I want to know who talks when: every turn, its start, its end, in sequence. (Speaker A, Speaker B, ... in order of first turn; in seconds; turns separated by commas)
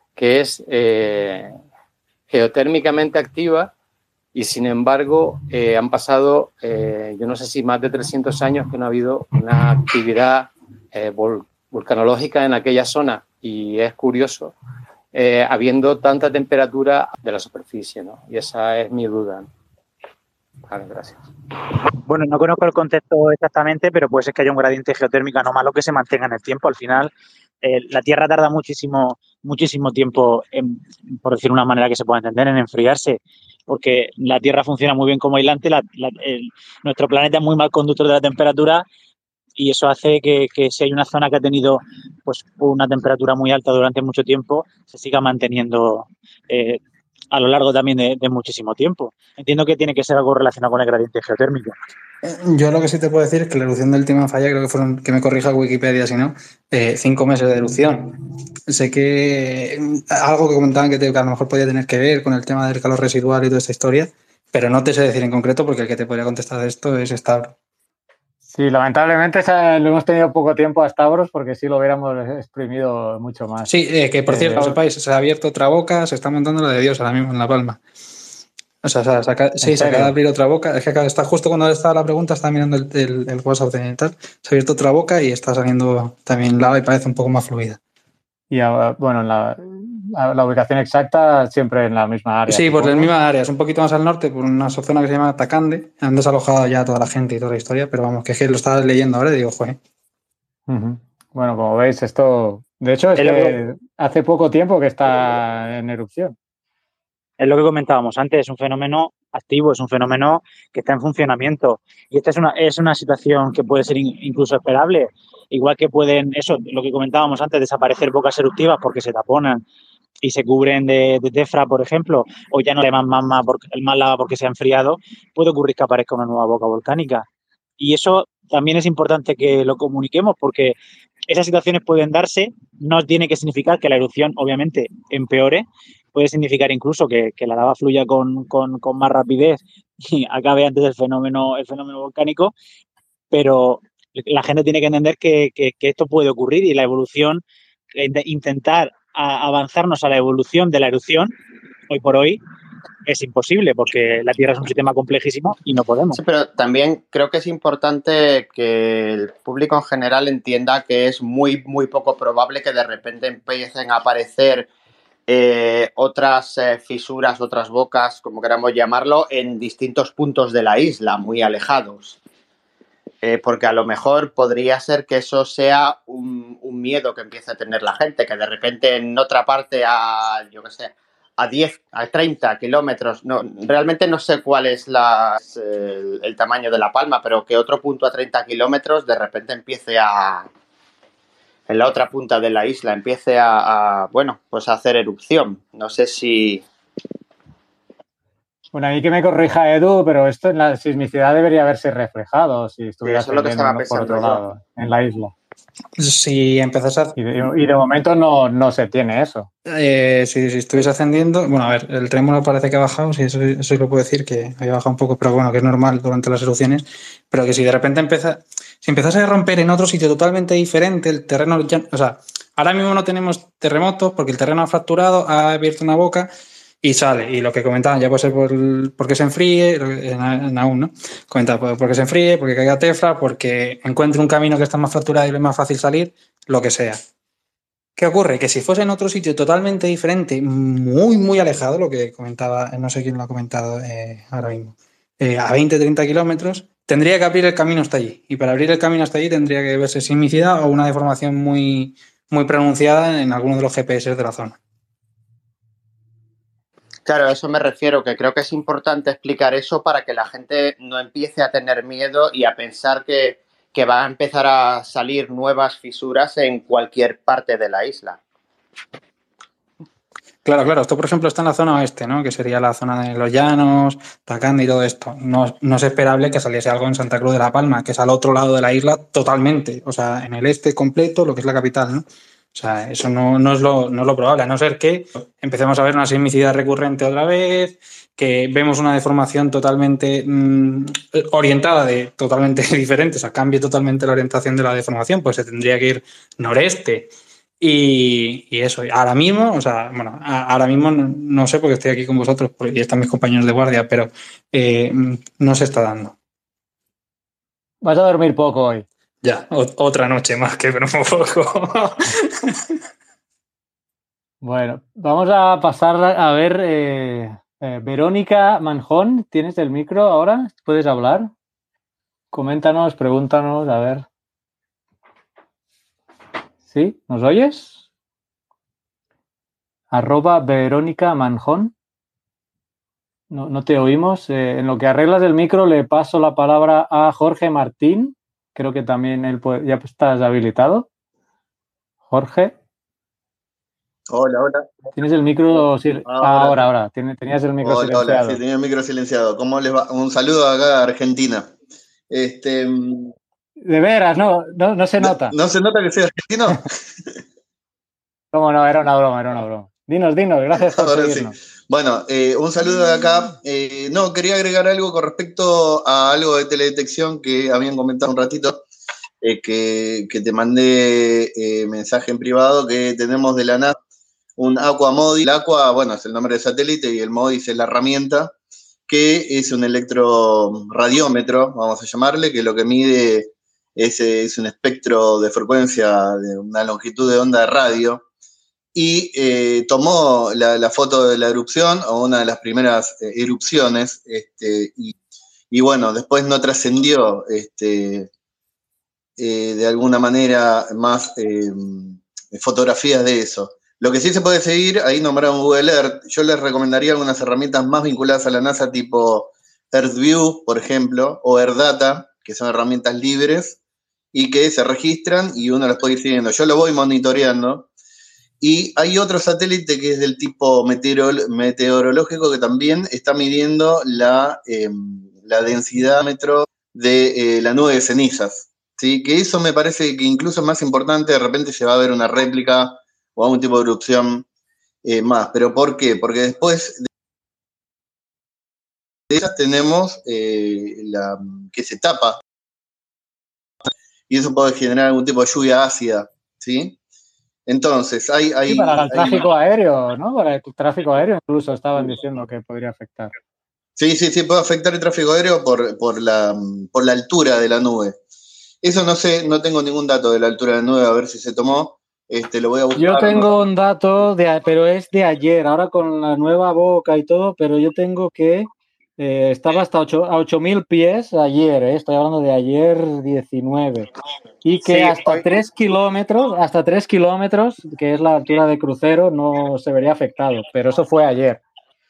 Speaker A: 0.1-1.5, Speaker A: 2.3-3.7, Speaker A: 4.3-14.5, Speaker A: 15.1-19.5, Speaker A: 20.7-21.2, Speaker B: 22.0-38.8, Speaker B: 39.6-46.8, Speaker B: 47.3-51.7, Speaker C: 52.2-58.2, Speaker C: 58.7-67.5, Speaker D: 68.5-73.7, Speaker C: 73.7-77.8, Speaker D: 74.3-74.8, Speaker C: 78.8-87.8, Speaker D: 79.6-80.1, Speaker D: 88.5-93.1, Speaker C: 92.5-99.8, Speaker D: 100.7-106.3, Speaker B: 103.2-103.6, Speaker B: 107.4-119.6, Speaker B: 120.2-127.2, Speaker B: 127.8-130.8, Speaker B: 131.3-142.5, Speaker B: 143.3-147.4, Speaker B: 147.9-151.3, Speaker B: 151.9-152.4, Speaker B: 153.1-156.2, Speaker E: 156.1-164.7, Speaker E: 165.3-172.2, Speaker E: 173.2-190.5, Speaker E: 191.7-196.6, Speaker D: 198.7-205.3, Speaker E: 203.0-204.4, Speaker C: 206.0-207.1, Speaker D: 207.2-209.5, Speaker C: 209.7-226.3, Speaker C: 226.8-237.0, Speaker C: 238.0-254.6, Speaker E: 257.0-268.2, Speaker C: 270.4-306.1, Speaker D: 307.8-308.8, Speaker C: 309.2-312.5, Speaker D: 314.4-321.3, Speaker D: 322.3-324.0, Speaker D: 326.7-327.8, Speaker D: 329.9-331.7, Speaker D: 333.3-340.9, Speaker D: 342.1-342.5, Speaker F: 344.1-344.7, Speaker D: 344.9-348.4, Speaker F: 346.0-346.7, Speaker F: 347.6-351.5, Speaker F: 352.1-353.1, Speaker D: 353.6-355.3, Speaker F: 355.0-356.6, Speaker D: 358.3-361.3, Speaker F: 360.5-368.6, Speaker F: 369.2-373.8, Speaker F: 374.4-378.3, Speaker F: 378.9-388.0, Speaker F: 388.7-394.9, Speaker F: 395.5-398.1, Speaker F: 399.2-413.6, Speaker F: 414.1-417.7, Speaker F: 418.4-434.2, Speaker F: 434.8-436.8, Speaker F: 439.1-442.2, Speaker F: 444.1-446.8, Speaker F: 447.5-449.2, Speaker D: 448.5-453.1, Speaker F: 453.8-457.9, Speaker F: 458.6-463.3, Speaker D: 462.7-473.9, Speaker D: 474.4-481.4, Speaker E: 474.7-475.2